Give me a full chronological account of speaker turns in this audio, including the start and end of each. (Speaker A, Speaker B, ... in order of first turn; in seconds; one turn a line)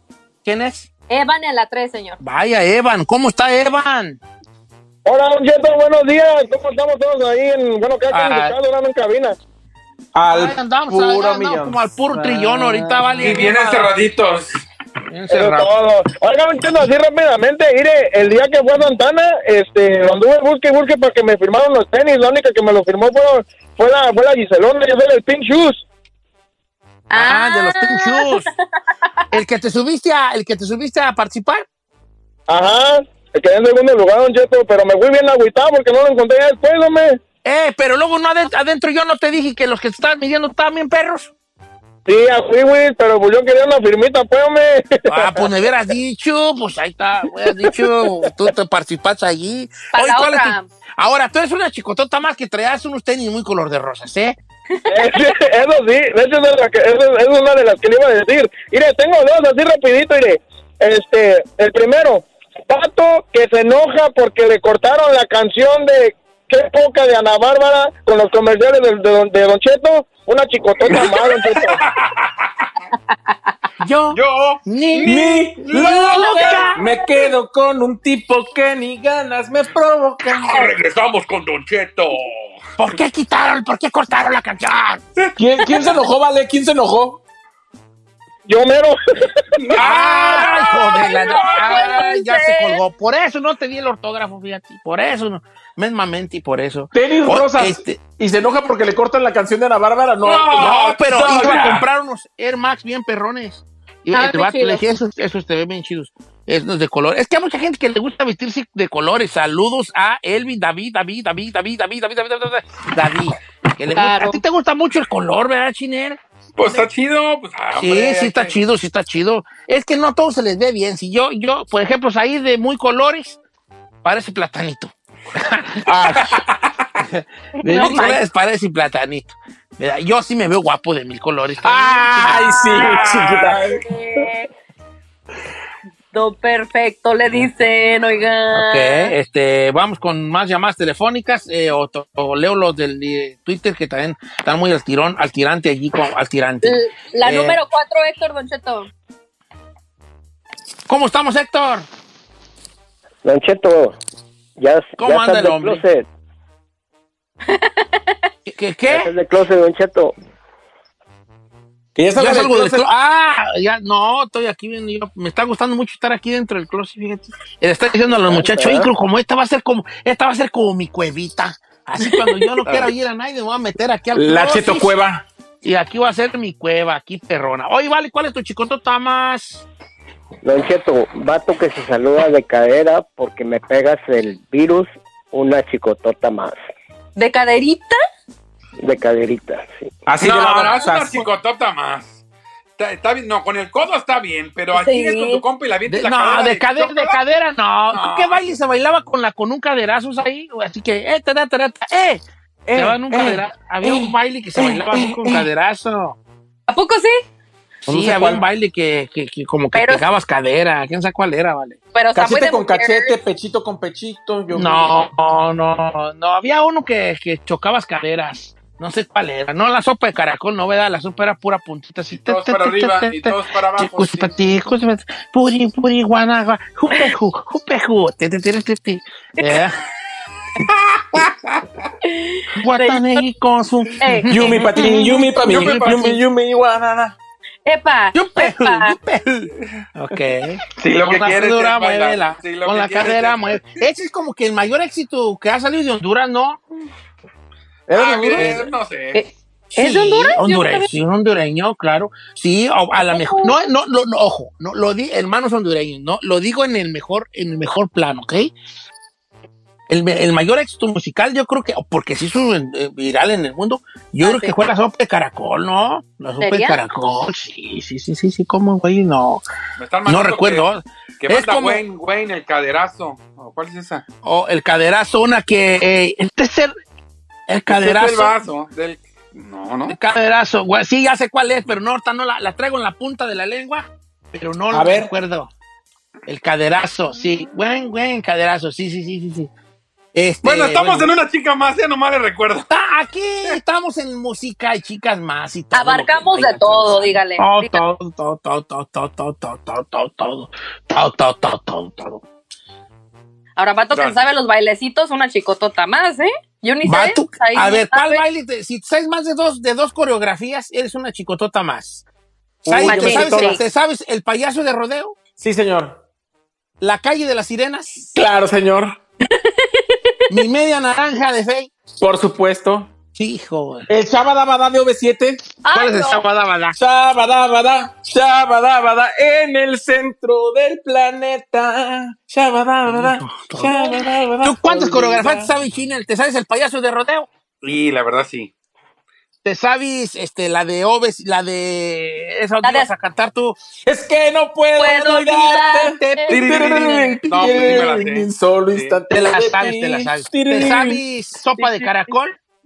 Speaker A: 0.4-0.9
Speaker B: 1.1-2.2
Speaker A: 2.2-4.2
Speaker C: 5.0-9.3
Speaker A: 8.1-8.5
Speaker D: 10.1-13.1
Speaker A: 10.3-13.9
Speaker E: 13.2-14.5
Speaker A: 15.1-15.7
Speaker C: 15.3-25.8
Speaker B: 27.1-28.4
Speaker A: 27.1-28.5
Speaker A: 29.3-31.6
Speaker C: 32.5-37.2
Speaker A: 37.4-41.3
Speaker C: 42.0-45.4
Speaker A: 45.1-54.4
Speaker B: 49.9-50.7
Speaker B: 54.7-55.2
Speaker C: 54.9-71.8
Speaker E: 71.8-72.3
Speaker A: 73.8-76.8
Speaker E: 74.1-76.7
Speaker D: 75.0-80.7
Speaker E: 80.3-82.5
Speaker A: 82.8-85.0
Speaker D: 85.4-87.2
Speaker C: 88.5-89.4
Speaker E: 89.6-92.0
Speaker A: 89.7-98.0
Speaker B: 90.1-92.8
Speaker D: 96.9-101.8
Speaker E: 100.2-101.8
Speaker A: 100.5-116.9
Speaker B: 104.1-104.8
Speaker B: 113.9-114.4
Speaker E: 116.6-118.6
Speaker A: 117.7-123.4
Speaker A: 124.0-125.9
Speaker D: 125.8-126.4
Speaker A: 127.0-132.5
Speaker B: 127.6-128.2
Speaker D: 127.7-128.1
Speaker D: 131.6-133.8
Speaker B: 132.2-134.5
Speaker E: 132.8-133.6
Speaker B: 136.1-139.1
Speaker A: 138.5-147.6
Speaker B: 146.6-148.9
Speaker A: 150.9-151.9
Speaker F: 153.2-154.0
Speaker F: 154.6-156.1
Speaker A: 155.0-155.8
Speaker B: 157.5-158.2
Speaker A: 158.4-159.1
Speaker F: 158.9-160.1
Speaker D: 161.9-162.8
Speaker A: 162.2-174.9
Speaker F: 168.1-168.9
Speaker B: 172.0-172.5
Speaker D: 174.1-175.2
Speaker A: 175.6-179.7
Speaker F: 180.4-186.6
Speaker B: 187.2-188.0
Speaker F: 188.8-189.9
Speaker D: 190.1-191.2
Speaker E: 190.2-192.2
Speaker E: 192.8-197.2
Speaker B: 194.7-195.4
Speaker A: 195.9-202.2
Speaker E: 197.9-198.4
Speaker D: 202.7-205.4
Speaker A: 202.7-206.2
Speaker B: 206.7-207.2
Speaker D: 207.9-208.4
Speaker A: 207.9-211.8
Speaker B: 209.7-210.0
Speaker B: 211.9-213.1
Speaker D: 212.1-215.0
Speaker A: 214.5-229.8
Speaker E: 222.1-224.4
Speaker B: 229.4-229.6
Speaker B: 232.0-233.2
Speaker A: 232.5-236.2
Speaker B: 234.0-235.1
Speaker D: 234.3-237.2
Speaker E: 235.4-236.0
Speaker B: 237.7-239.0
Speaker A: 238.1-246.6
Speaker E: 240.8-243.8
Speaker D: 247.9-248.7
Speaker E: 247.9-249.2
Speaker A: 248.3-248.7
Speaker B: 249.1-250.9
Speaker A: 249.7-258.5
Speaker B: 253.0-253.6
Speaker A: 259.9-269.4
Speaker B: 264.2-264.5
Speaker B: 266.4-266.8
Speaker E: 269.8-270.7
Speaker A: 270.1-271.8
Speaker E: 271.2-274.0
Speaker A: 274.2-276.7
Speaker A: 277.5-278.4
Speaker E: 277.7-280.0
Speaker A: 279.9-285.5
Speaker D: 284.7-285.1
Speaker A: 286.2-289.5
Speaker A: 290.1-291.1
Speaker E: 290.4-292.7
Speaker A: 292.7-302.2
Speaker B: 295.7-297.8
Speaker B: 303.6-308.2
Speaker E: 303.9-304.2
Speaker A: 306.9-312.0
Speaker D: 312.6-313.6
Speaker A: 312.7-315.2
Speaker B: 312.8-313.6
Speaker D: 315.4-316.0
Speaker A: 316.8-318.1
Speaker D: 318.1-319.0
Speaker B: 319.3-320.1
Speaker A: 320.3-321.7
Speaker D: 322.0-322.9
Speaker A: 323.1-323.9
Speaker D: 323.9-325.4
Speaker B: 325.6-326.2
Speaker A: 325.7-326.8
Speaker D: 326.8-335.5
Speaker A: 332.8-337.3
Speaker E: 337.6-338.5
Speaker A: 339.4-343.6
Speaker B: 342.6-342.9
Speaker D: 343.9-351.0
Speaker B: 344.8-346.4
Speaker E: 346.3-349.0
Speaker A: 346.5-347.9
Speaker A: 349.1-352.4
Speaker B: 351.6-351.9